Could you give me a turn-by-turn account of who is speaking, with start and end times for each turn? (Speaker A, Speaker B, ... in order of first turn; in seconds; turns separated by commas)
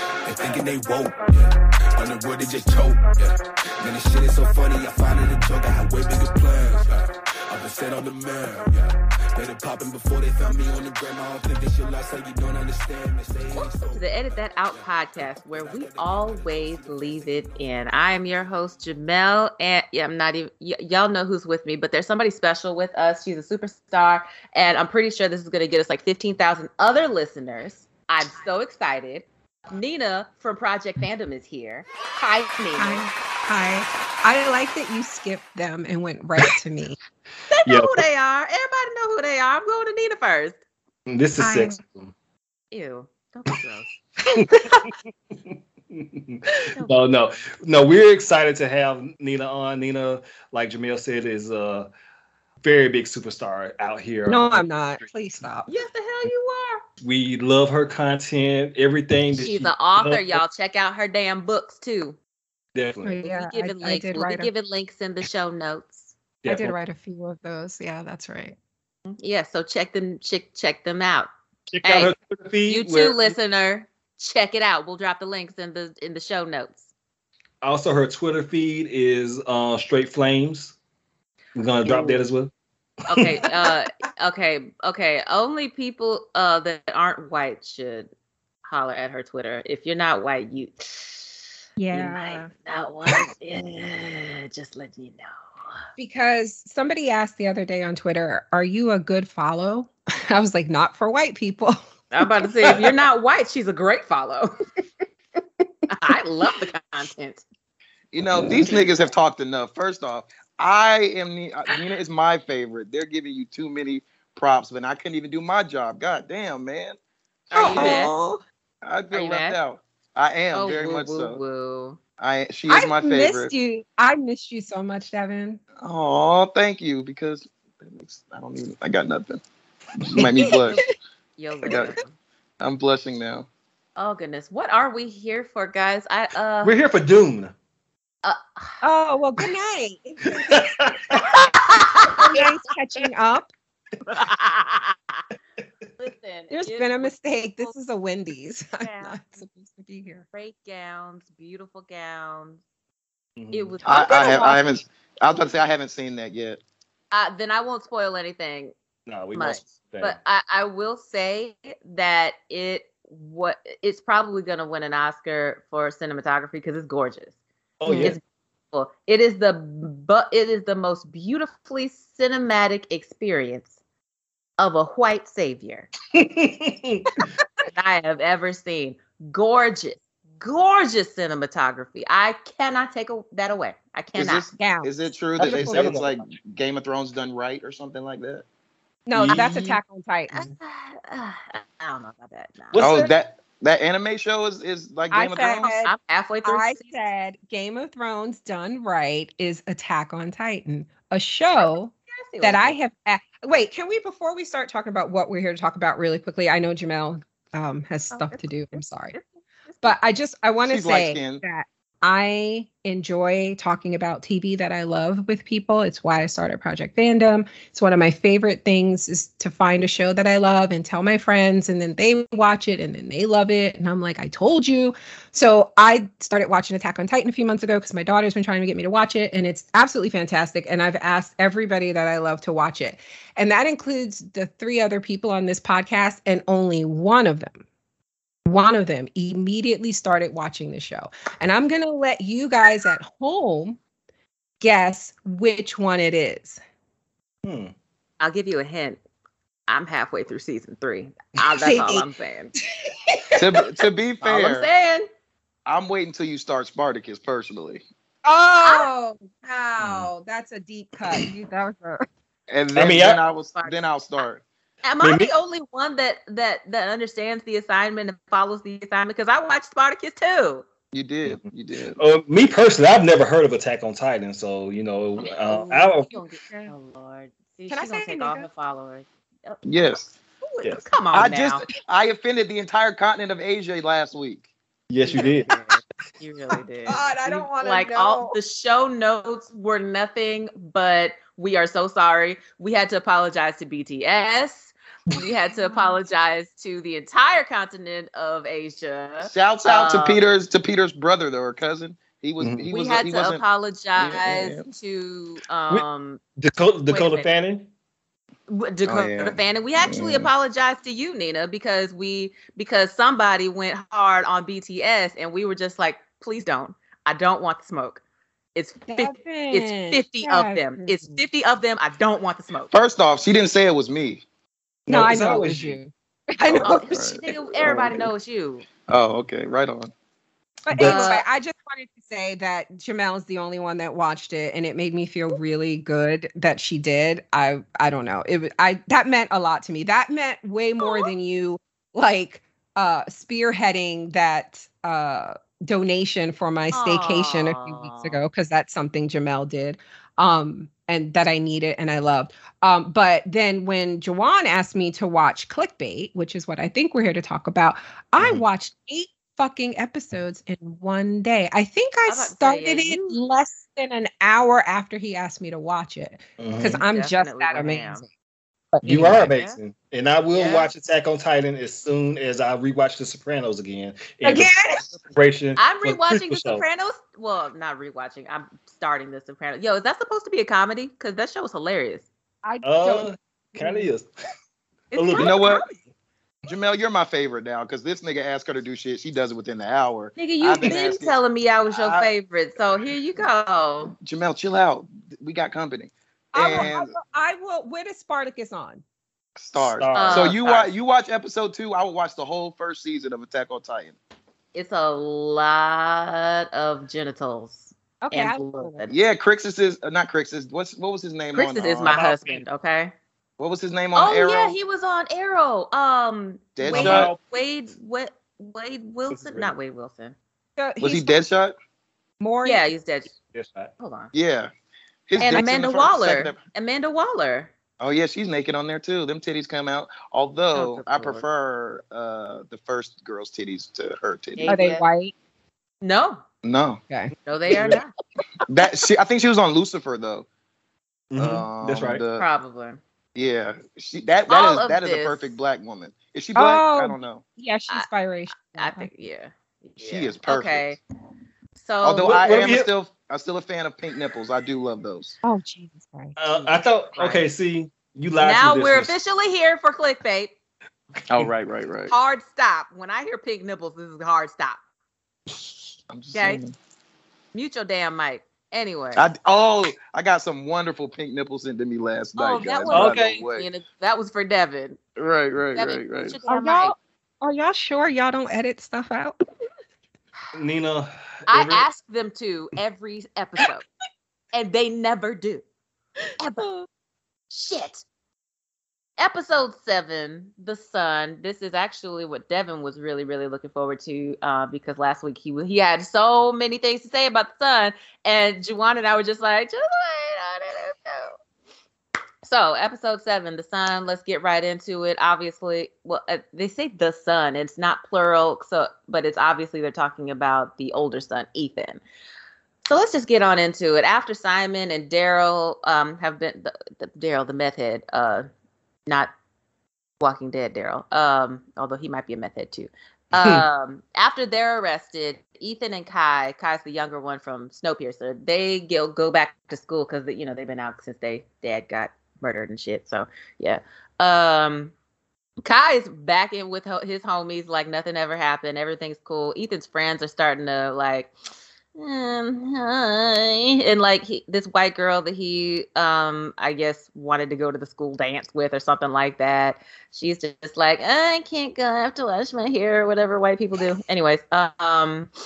Speaker A: 0.3-17.6, Speaker B: 13.5-33.0, Speaker C: 32.8-37.0, Speaker B: 37.5-40.6, Speaker D: 37.7-38.0, Speaker D: 41.1-42.1, Speaker C: 41.4-41.8, Speaker B: 42.7-43.9, Speaker C: 44.4-44.8, Speaker D: 44.4-44.9, Speaker D: 45.9-51.9, Speaker D: 52.6-54.7, Speaker C: 54.3-55.7, Speaker B: 55.7-56.8, Speaker D: 57.0-60.4, Speaker B: 59.3-62.2, Speaker D: 62.8-63.2, Speaker C: 63.0-64.5, Speaker B: 63.3-66.1, Speaker D: 66.4-66.7, Speaker C: 66.5-68.6, Speaker B: 69.1-71.3, Speaker D: 71.7-73.3, Speaker B: 71.8-72.1, Speaker B: 72.7-76.9, Speaker D: 77.6-80.8, Speaker D: 81.6-82.5, Speaker B: 81.8-82.3, Speaker B: 83.1-88.1, Speaker D: 83.2-83.5, Speaker B: 88.7-91.3, Speaker C: 91.8-92.5, Speaker B: 91.9-95.3, Speaker C: 96.0-101.8, Speaker B: 102.1-104.5, Speaker C: 102.4-102.8, Speaker B: 105.9-107.4, Speaker E: 108.1-117.0, Speaker B: 117.5-118.1, Speaker C: 117.5-118.4, Speaker E: 117.8-118.2, Speaker E: 118.8-121.4, Speaker B: 119.1-119.6, Speaker B: 120.5-122.0, Speaker E: 122.2-123.5, Speaker C: 122.7-125.6, Speaker E: 125.8-129.4, Speaker E: 130.0-130.8, Speaker C: 130.3-130.8, Speaker B: 130.5-130.8, Speaker B: 131.4-132.1, Speaker E: 131.7-131.9, Speaker E: 132.6-133.5, Speaker B: 134.0-136.8, Speaker D: 136.6-137.5, Speaker B: 138.2-138.8, Speaker C: 138.8-140.8, Speaker D: 140.3-141.3, Speaker B: 141.2-142.5, Speaker C: 142.1-143.5, Speaker B: 144.1-145.2, Speaker B: 146.0-147.8, Speaker C: 146.5-150.2, Speaker B: 148.8-149.4, Speaker B: 150.3-152.6, Speaker D: 153.4-153.8, Speaker B: 153.5-154.8, Speaker C: 153.8-154.7, Speaker E: 153.8-156.6, Speaker B: 157.1-158.8, Speaker D: 159.1-160.2, Speaker B: 159.3-167.3, Speaker D: 167.8-168.2, Speaker C: 167.8-168.2, Speaker B: 168.0-173.8, Speaker B: 174.6-175.9, Speaker D: 176.2-177.3, Speaker C: 177.2-177.4, Speaker B: 177.7-184.5, Speaker E: 184.2-188.4, Speaker C: 184.6-186.0, Speaker D: 185.4-186.2, Speaker C: 189.1-190.5, Speaker E: 189.1-189.5, Speaker B: 189.3-189.8, Speaker B: 190.3-192.8, Speaker C: 192.8-193.0, Speaker D: 192.8-193.1, Speaker E: 192.8-195.7, Speaker C: 195.1-195.9, Speaker B: 195.4-196.9, Speaker C: 196.4-209.1, Speaker B: 201.6-202.8, Speaker B: 208.1-210.0, Speaker C: 209.8-237.6, Speaker E: 210.6-211.4, Speaker C: 238.5-243.8, Speaker C: 244.6-246.6, Speaker D: 247.4-247.7, Speaker B: 248.2-249.0, Speaker B: 249.7-252.5, Speaker C: 251.6-252.1, Speaker C: 252.9-253.4, Speaker E: 253.4-254.7, Speaker B: 254.2-255.1, Speaker E: 255.7-257.8, Speaker C: 258.2-262.1, Speaker B: 258.6-258.9, Speaker D: 259.8-260.1, Speaker E: 262.5-264.4, Speaker D: 262.7-263.2, Speaker B: 263.5-263.9, Speaker B: 264.8-270.7, Speaker D: 265.0-265.3, Speaker E: 270.9-272.0, Speaker D: 272.0-276.1, Speaker B: 275.4-280.0, Speaker C: 276.1-276.7, Speaker C: 277.7-278.5, Speaker E: 279.6-280.1, Speaker B: 280.5-281.6, Speaker E: 281.1-284.5, Speaker D: 284.9-285.6, Speaker B: 285.1-300.2, Speaker C: 286.9-288.4, Speaker C: 295.5-296.0, Speaker E: 299.2-303.4, Speaker D: 302.4-302.7, Speaker B: 302.7-306.2, Speaker E: 304.0-304.7, Speaker D: 306.4-307.7, Speaker B: 306.9-307.3, Speaker B: 308.5-318.0, Speaker E: 308.9-310.3, Speaker B: 318.6-322.7, Speaker C: 318.9-321.2, Speaker E: 322.7-324.2, Speaker D: 324.9-325.8, Speaker C: 324.9-327.2, Speaker E: 326.5-328.1, Speaker B: 326.6-328.7, Speaker E: 328.9-329.9, Speaker C: 330.7-368.1, Speaker D: 330.7-331.1, Speaker B: 330.8-331.2, Speaker B: 340.8-341.1, Speaker B: 346.7-348.2, Speaker D: 358.2-358.4, Speaker B: 362.1-363.2, Speaker D: 366.4-366.8, Speaker B: 366.9-368.0, Speaker C: 368.7-369.2, Speaker D: 368.8-376.6, Speaker B: 369.1-369.6, Speaker B: 370.3-370.7, Speaker C: 374.2-375.0, Speaker B: 375.6-382.1, Speaker C: 382.4-383.9, Speaker D: 382.6-384.1, Speaker B: 384.9-385.7, Speaker D: 384.9-385.4, Speaker E: 385.2-385.7, Speaker E: 386.5-391.2, Speaker B: 390.2-393.9, Speaker E: 391.7-392.1, Speaker E: 394.0-396.9, Speaker C: 396.3-398.8, Speaker E: 399.4-404.0, Speaker D: 399.6-400.4, Speaker B: 399.9-400.7, Speaker B: 404.5-409.0, Speaker C: 408.1-408.8, Speaker E: 408.9-412.0, Speaker B: 411.3-412.9, Speaker D: 411.9-412.4, Speaker E: 413.4-414.6, Speaker B: 413.9-420.2, Speaker E: 416.6-417.1, Speaker D: 416.7-417.2, Speaker D: 419.1-419.5, Speaker C: 420.6-421.2, Speaker E: 420.8-421.6, Speaker C: 422.2-422.7, Speaker B: 422.4-423.1, Speaker D: 423.3-423.7, Speaker B: 423.8-424.1, Speaker E: 424.1-424.5, Speaker E: 425.1-426.4, Speaker B: 425.2-427.5, Speaker E: 427.8-434.5, Speaker B: 430.5-431.2, Speaker B: 434.4-434.9, Speaker C: 434.5-435.1, Speaker B: 435.8-436.2, Speaker E: 436.4-436.8, Speaker C: 436.9-437.8, Speaker B: 437.2-437.9, Speaker E: 438.5-440.3, Speaker D: 441.1-442.0, Speaker E: 441.2-442.3, Speaker B: 442.1-442.8, Speaker E: 443.1-447.2, Speaker B: 444.3-445.4, Speaker C: 446.4-448.9, Speaker B: 447.7-450.8, Speaker E: 449.8-450.8, Speaker B: 451.6-452.2, Speaker E: 451.8-455.2, Speaker D: 452.0-452.7, Speaker C: 455.2-456.2, Speaker D: 456.2-458.9, Speaker B: 456.9-457.2, Speaker B: 458.2-460.3, Speaker E: 461.1-461.9, Speaker B: 461.9-464.6, Speaker E: 465.9-466.5, Speaker B: 466.1-466.4, Speaker B: 467.3-469.1, Speaker E: 468.9-473.5, Speaker B: 472.2-474.8, Speaker D: 472.7-473.2, Speaker E: 475.0-476.2, Speaker B: 475.5-476.7, Speaker C: 476.3-479.2, Speaker D: 480.3-481.6, Speaker B: 481.3-483.6, Speaker B: 484.3-485.4, Speaker C: 486.2-486.7, Speaker B: 487.3-487.9, Speaker B: 489.0-501.2, Speaker B: 502.2-511.8, Speaker B: 512.6-518.3, Speaker B: 518.9-519.1, Speaker B: 520.0-534.7, Speaker D: 523.2-523.5, Speaker B: 535.5-541.1, Speaker B: 541.8-555.1